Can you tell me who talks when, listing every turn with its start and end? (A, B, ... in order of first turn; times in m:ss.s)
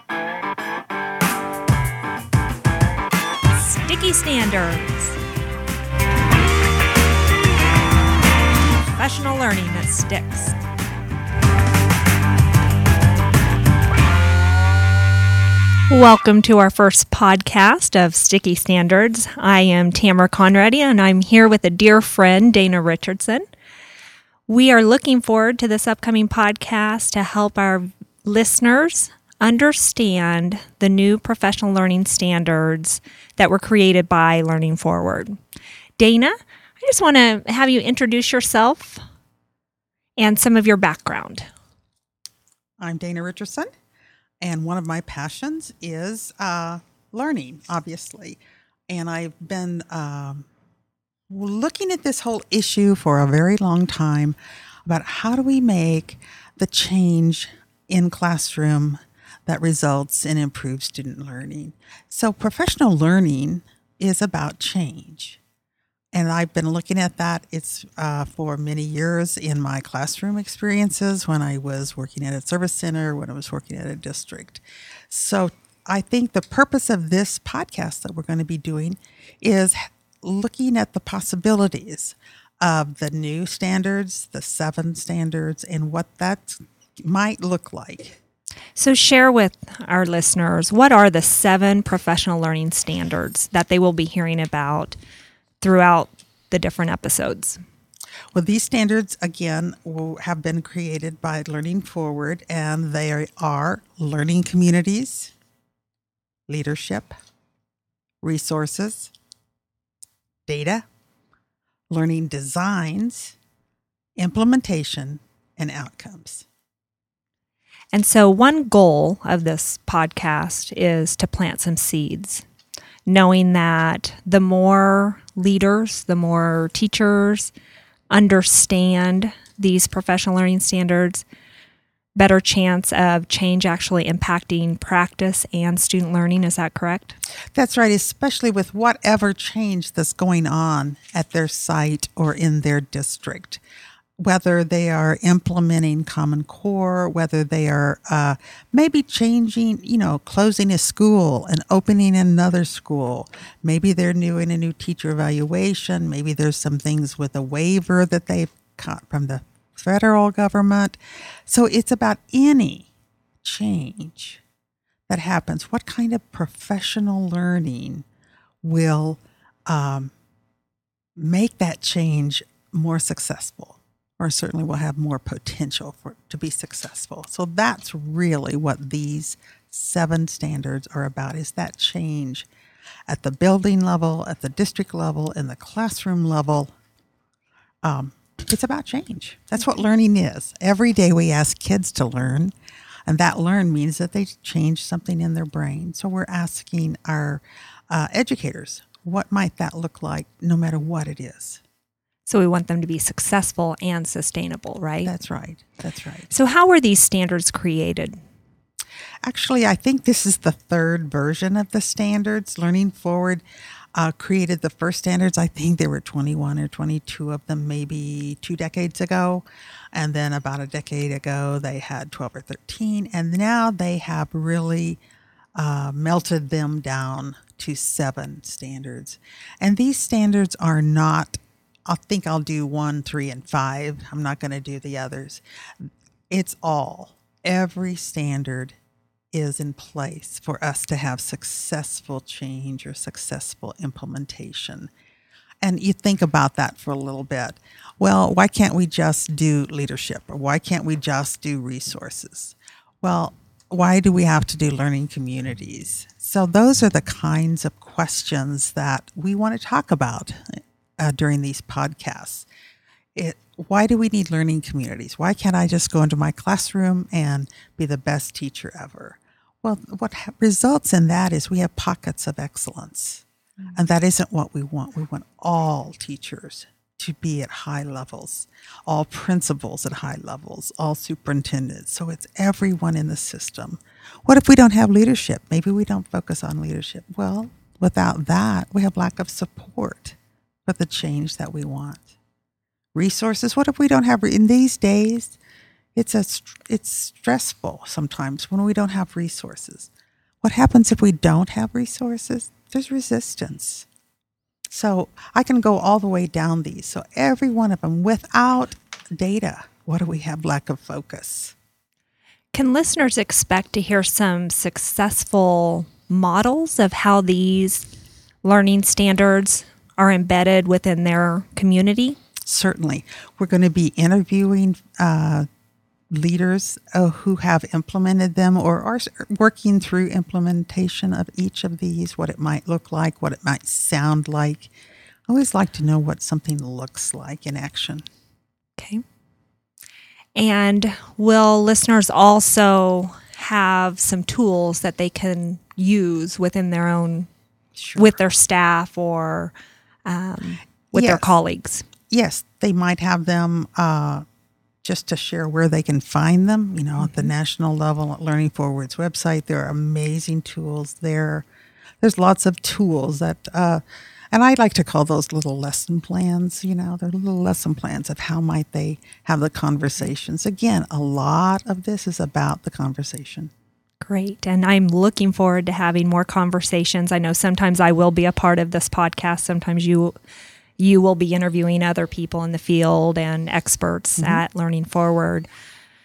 0:03.5-0:05.2 A
0:09.0-0:10.6 A
0:15.9-0:23.4 A
0:24.5-0:35.4 A
0:36.0-0:39.0 A
0:40.2-0:41.5 A
0:42.8-0:43.7 B
0:44.4-0:50.5 B
0:51.3-1:05.4 B
1:06.1-1:28.2 B
1:28.8-1:35.0 A
1:35.6-1:37.6 A
1:38.3-1:45.3 B
1:46.5-1:47.1 B
1:48.2-1:49.1 B
1:50.5-1:50.8 B
1:51.9-1:53.4 B
1:54.2-1:56.5 B
1:57.9-2:02.4 A
2:03.1-2:07.5 A
2:08.1-2:11.2 A
2:12.2-2:17.2 A
2:17.6-2:23.6 B
2:24.2-2:42.9 B
2:43.4-2:44.4 B
2:45.1-2:48.1 B
2:48.6-2:50.1 B
2:51.2-3:02.5 B
3:03.1-3:06.7 B
3:07.8-3:12.5 B
3:13.1-3:21.6 B
3:22.3-3:25.1 A
3:25.0-3:26.3 B
3:26.3-3:28.2 A
3:29.2-3:33.4 B
3:34.0-3:45.0 B
3:45.6-3:55.4 B
3:56.3-3:58.8 B
3:59.3-4:04.9 B
4:05.6-4:20.4 B
4:21.0-4:22.5 B
4:23.2-4:52.1 B
4:53.0-4:55.4 B
4:56.0-4:59.9 B
5:00.4-5:03.9 B
5:04.7-5:11.6 B
5:12.5-5:17.9 A
5:18.4-5:22.2 A
5:22.4-5:25.5 B
5:26.1-5:34.7 B
5:35.3-5:38.0 B
5:38.8-5:39.0 A
5:40.4-5:47.3 A
5:47.8-5:48.1 B
5:48.0-5:49.5 A
5:50.1-5:51.9 A
5:50.9-5:51.3 B
5:52.1-5:54.2 B
5:54.8-6:01.5 B
5:57.0-5:57.3 A
6:02.0-6:13.5 B
6:14.0-6:20.2 A
6:20.8-6:25.5 A